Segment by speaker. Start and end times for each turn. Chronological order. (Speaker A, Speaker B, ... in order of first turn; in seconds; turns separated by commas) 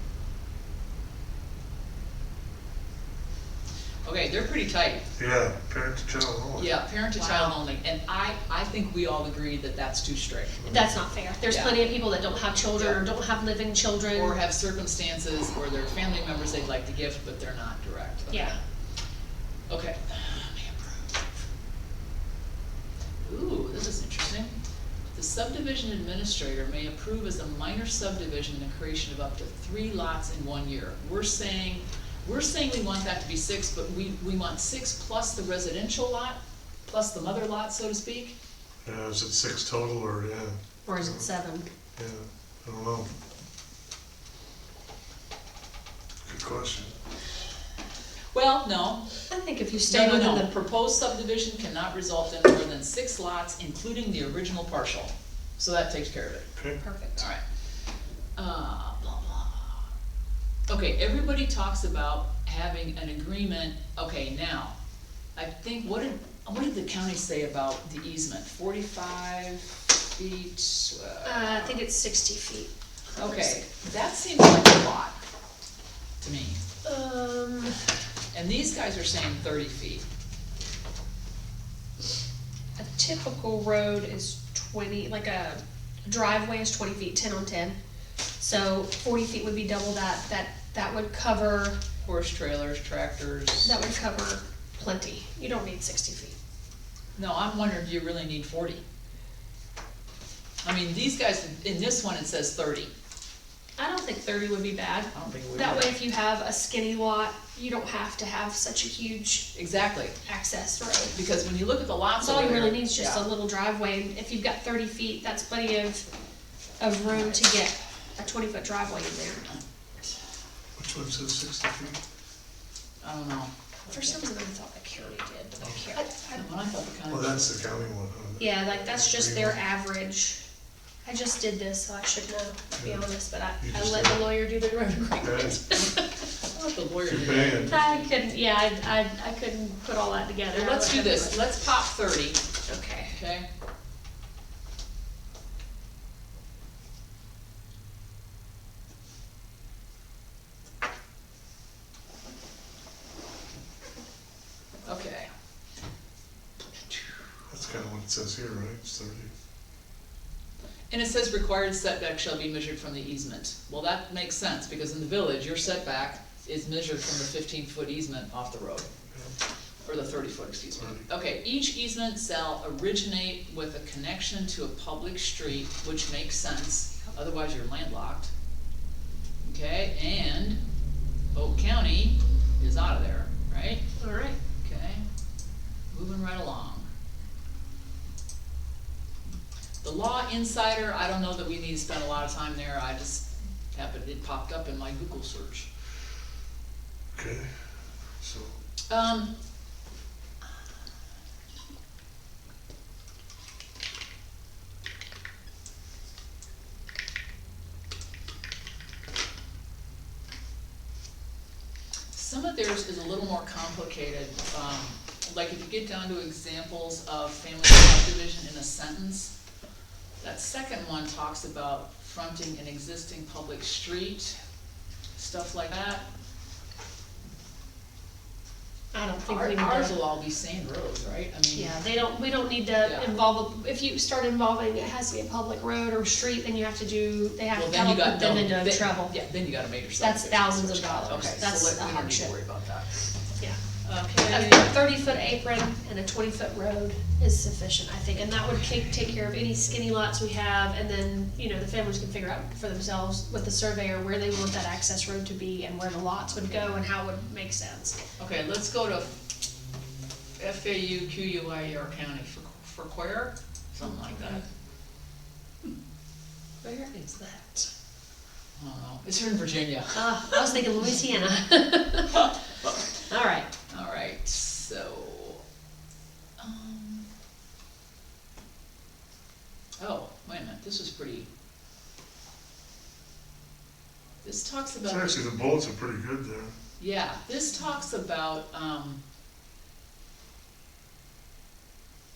Speaker A: 4.0-5.0, Speaker B: 5.2-6.7, Speaker A: 6.6-10.6, Speaker C: 7.2-7.6, Speaker C: 10.7-14.4, Speaker A: 11.5-13.0, Speaker A: 14.1-18.6, Speaker C: 18.3-18.6, Speaker A: 19.7-21.2, Speaker A: 23.2-24.5, Speaker A: 25.1-38.4, Speaker B: 38.8-41.3, Speaker C: 40.9-41.7, Speaker B: 42.0-43.1, Speaker B: 46.3-47.0, Speaker A: 48.3-49.1, Speaker C: 49.3-50.6, Speaker A: 49.9-56.5, Speaker C: 56.8-57.3, Speaker A: 57.2-57.4, Speaker A: 58.4-59.9, Speaker A: 60.7-64.8, Speaker A: 65.4-71.8, Speaker C: 71.2-73.6, Speaker A: 73.2-75.2, Speaker A: 76.2-76.6, Speaker C: 76.8-77.8, Speaker A: 78.3-80.0, Speaker C: 82.8-87.8, Speaker C: 88.4-91.8, Speaker A: 92.0-93.8, Speaker C: 93.6-96.4, Speaker A: 97.2-98.8, Speaker A: 100.6-102.9, Speaker C: 103.8-109.5, Speaker A: 105.1-106.0, Speaker A: 109.5-110.2, Speaker C: 110.2-111.2, Speaker A: 111.1-113.3, Speaker C: 112.2-116.0, Speaker C: 116.8-119.5, Speaker A: 117.0-117.4, Speaker B: 120.8-122.0, Speaker A: 123.0-124.2, Speaker C: 123.9-126.4, Speaker A: 126.3-127.5, Speaker B: 127.1-129.6, Speaker C: 128.4-130.4, Speaker C: 131.1-136.2, Speaker B: 132.7-133.0, Speaker B: 133.6-134.3, Speaker B: 135.2-135.6, Speaker A: 136.3-138.1, Speaker B: 137.1-137.8, Speaker C: 137.7-141.4, Speaker A: 140.5-142.4, Speaker C: 142.7-143.1, Speaker A: 143.1-143.5, Speaker A: 154.8-155.3, Speaker B: 157.5-159.3, Speaker A: 160.9-168.9, Speaker A: 169.8-178.3, Speaker B: 170.8-171.1, Speaker A: 179.4-180.6, Speaker A: 181.3-183.8, Speaker C: 184.0-184.4, Speaker A: 184.6-185.0, Speaker A: 185.9-186.9, Speaker A: 189.8-195.7, Speaker B: 197.1-197.5, Speaker B: 198.2-198.5, Speaker A: 198.9-199.3, Speaker A: 212.1-219.3, Speaker A: 220.2-224.4, Speaker A: 225.2-226.0, Speaker C: 228.9-230.0, Speaker A: 229.3-231.8, Speaker C: 231.5-239.2, Speaker A: 232.8-233.2, Speaker A: 237.5-243.0, Speaker C: 240.0-242.3, Speaker A: 243.8-245.4, Speaker C: 244.2-258.0, Speaker A: 258.2-259.2, Speaker A: 260.4-264.4, Speaker C: 263.8-264.4, Speaker C: 266.6-267.7, Speaker A: 268.6-271.1, Speaker C: 269.9-272.3, Speaker A: 272.1-272.8, Speaker C: 273.1-273.5, Speaker A: 273.7-275.4, Speaker A: 276.4-277.1, Speaker A: 279.8-281.3, Speaker A: 284.2-285.3, Speaker B: 284.9-286.5, Speaker A: 286.8-289.0